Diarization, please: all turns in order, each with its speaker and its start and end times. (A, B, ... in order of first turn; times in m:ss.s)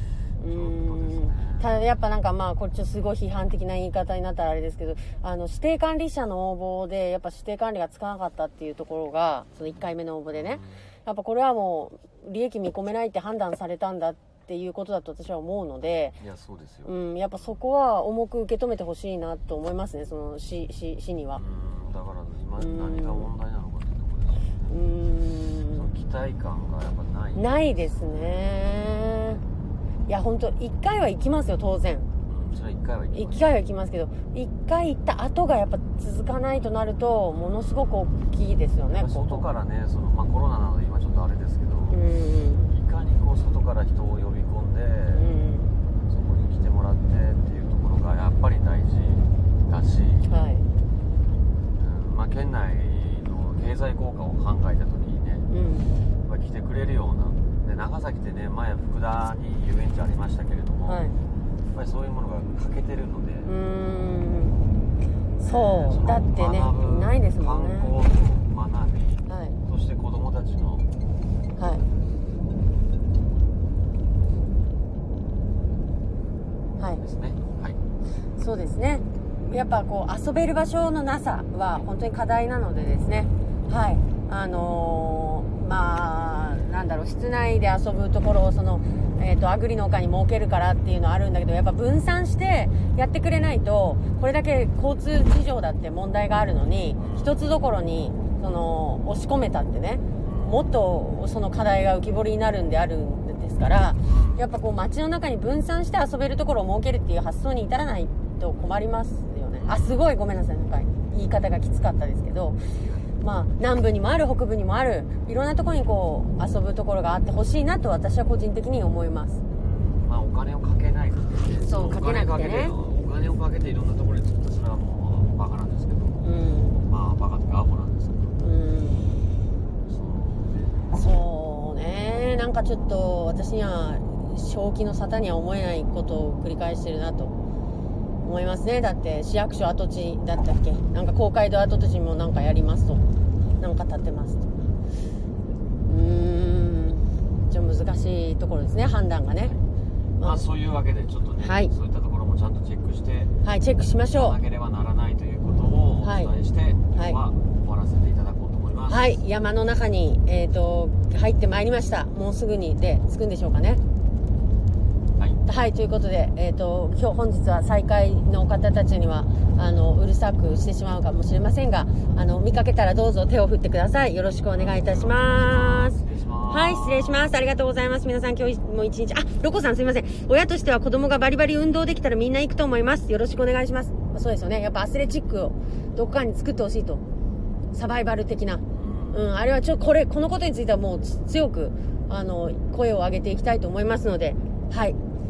0:00.4-0:16.2 A
0:00.4-0:01.8 B
0:10.3-0:10.8 B
0:16.2-0:17.6 B
0:16.8-0:21.4 A
0:21.3-0:24.8 B
0:22.6-0:23.3 A
0:24.7-0:25.9 A
0:25.6-0:28.4 B
0:27.3-0:29.4 A
0:30.1-0:32.1 A
0:32.3-0:33.5 B
0:33.1-0:39.4 A
0:38.9-0:42.0 B
0:41.9-0:42.7 A
0:42.7-0:45.3 B
0:45.1-0:45.7 A
0:46.1-0:50.3 B
0:50.3-0:50.7 A
0:51.8-0:55.5 B
0:55.5-0:55.9 A
0:56.2-1:01.1 B
1:00.8-1:01.2 A
1:01.7-1:03.5 B
1:03.4-1:04.6 A
1:05.4-1:07.9 A
1:05.4-1:10.9 B
1:09.3-1:09.6 A
1:11.6-1:11.8 A
1:17.0-1:17.8 B
1:18.4-1:52.6 A
1:37.0-1:37.4 B
1:40.2-1:40.7 B
1:44.0-1:44.4 B
1:49.6-1:50.1 B
1:52.7-1:53.1 B
1:53.2-1:59.4 A
1:59.5-2:06.2 B
2:01.6-2:02.7 A
2:06.2-2:06.8 A
2:06.8-2:08.3 B
2:08.4-2:09.2 A
2:09.8-2:10.9 B
2:10.9-2:17.3 A
2:18.2-2:23.0 A
2:23.6-2:24.4 A
2:25.8-2:29.6 A
2:29.4-2:29.6 B
2:30.2-2:33.3 B
2:31.4-2:31.7 A
2:33.4-2:34.4 A
2:34.1-2:39.2 B
2:36.0-2:36.3 A
2:37.0-2:37.2 A
2:38.9-2:43.8 A
2:45.2-2:45.4 B
2:45.4-2:56.0 A
2:54.5-2:57.3 B
2:56.5-3:07.0 A
3:07.7-3:15.0 A
3:08.7-3:09.2 B